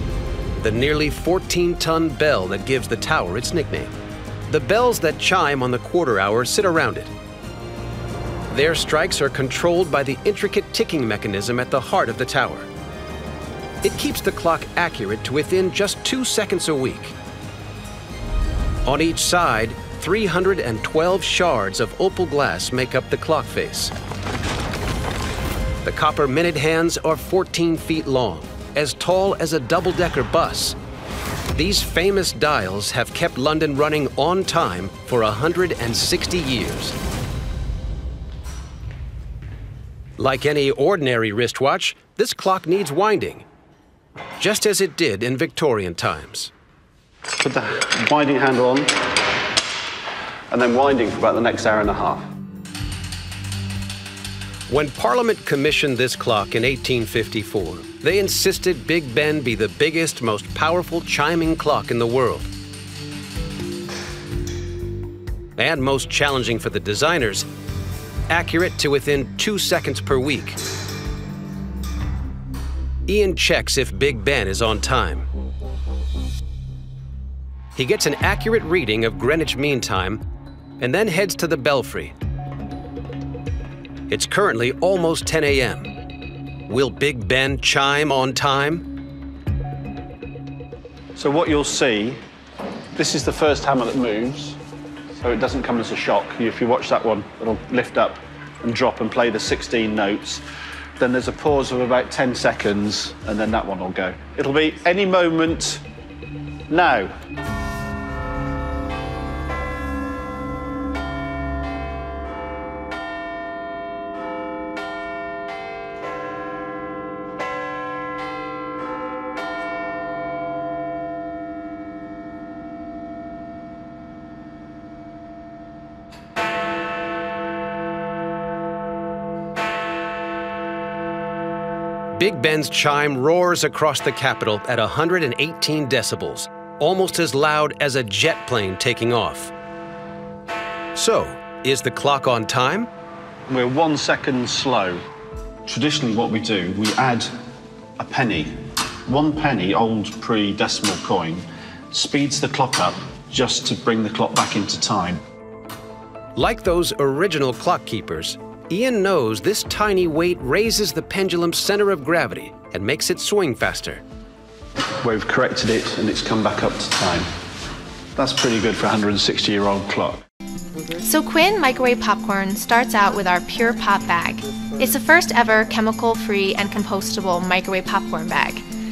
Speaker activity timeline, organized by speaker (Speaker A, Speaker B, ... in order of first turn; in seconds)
Speaker A: 0.6-3.9, 4.5-7.1, 8.5-12.7, 13.8-17.1, 18.8-23.9, 25.8-30.8, 31.5-37.0, 40.2-43.4, 44.4-46.5, 54.7-62.5, 65.5-67.5, 68.3-70.6, 73.1-75.3, 77.8-80.2, 80.8-82.1, 84.1-85.9, 86.7-88.8, 132.1-139.5, 140.9-142.9, 156.3-164.0
Speaker B: 47.4-49.0, 50.5-52.2, 91.1-92.2, 92.9-94.6, 95.2-100.4, 101.0-105.8, 106.7-107.1, 143.5-145.0, 145.7-147.3, 148.0-155.2, 165.0-167.3, 168.2-170.2
Speaker C: 171.0-178.7